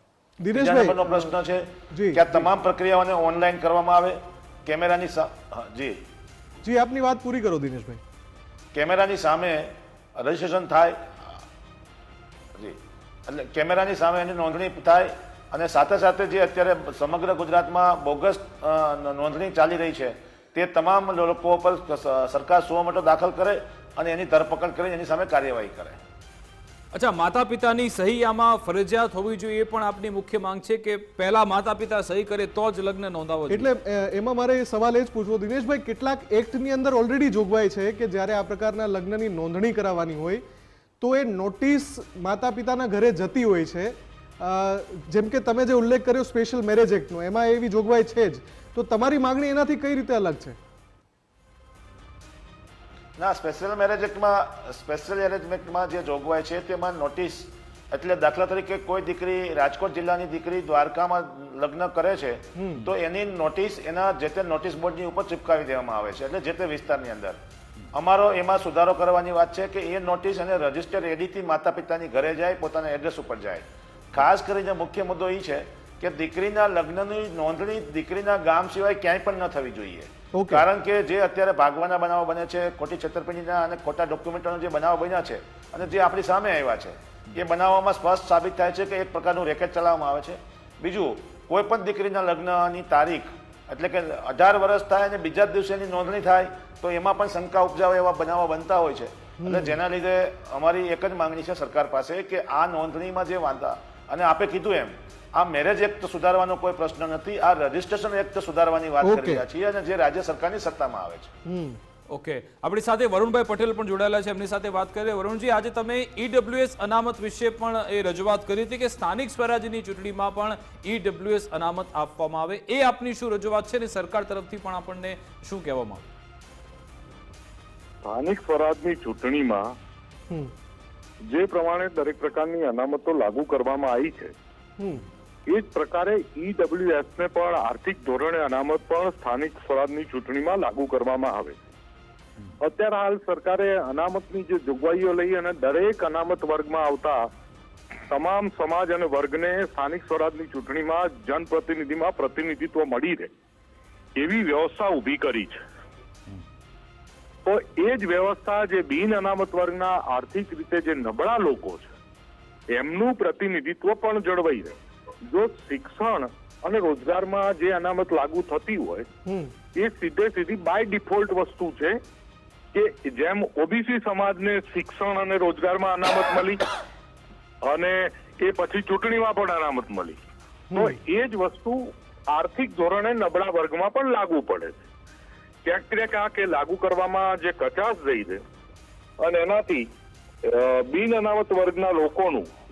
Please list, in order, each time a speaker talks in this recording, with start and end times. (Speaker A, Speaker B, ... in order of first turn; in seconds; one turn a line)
Speaker A: 0.4-1.3
Speaker B: 0.5-6.0
Speaker A: 1.9-2.5
Speaker A: 6.6-8.0
Speaker B: 8.7-11.4
Speaker B: 12.6-26.0
Speaker C: 26.9-33.7
Speaker A: 33.5-40.4
Speaker A: 41.0-50.6
Speaker B: 53.2-67.4
Speaker A: 62.5-62.9
Speaker B: 67.9-111.3
Speaker A: 80.3-80.7
Speaker A: 99.4-99.8
Speaker A: 109.0-109.4
Speaker A: 111.5-111.8
Speaker C: 112.1-126.1
Speaker D: 128.0-129.8
Speaker D: 131.2-134.3
Speaker A: 134.8-135.0
Speaker D: 135.5-141.6
Speaker D: 142.6-147.3
Speaker D: 148.1-153.3
Speaker D: 154.2-155.6
Speaker D: 157.5-161.9
Speaker D: 162.7-169.1
Speaker A: 169.3-169.5
Speaker D: 169.8-172.0
Speaker D: 172.7-176.7
Speaker D: 177.6-180.2
Speaker A: 180.7-181.0
Speaker D: 180.8-184.8
Speaker D: 185.6-188.4
Speaker D: 189.2-189.9
Speaker D: 190.4-192.5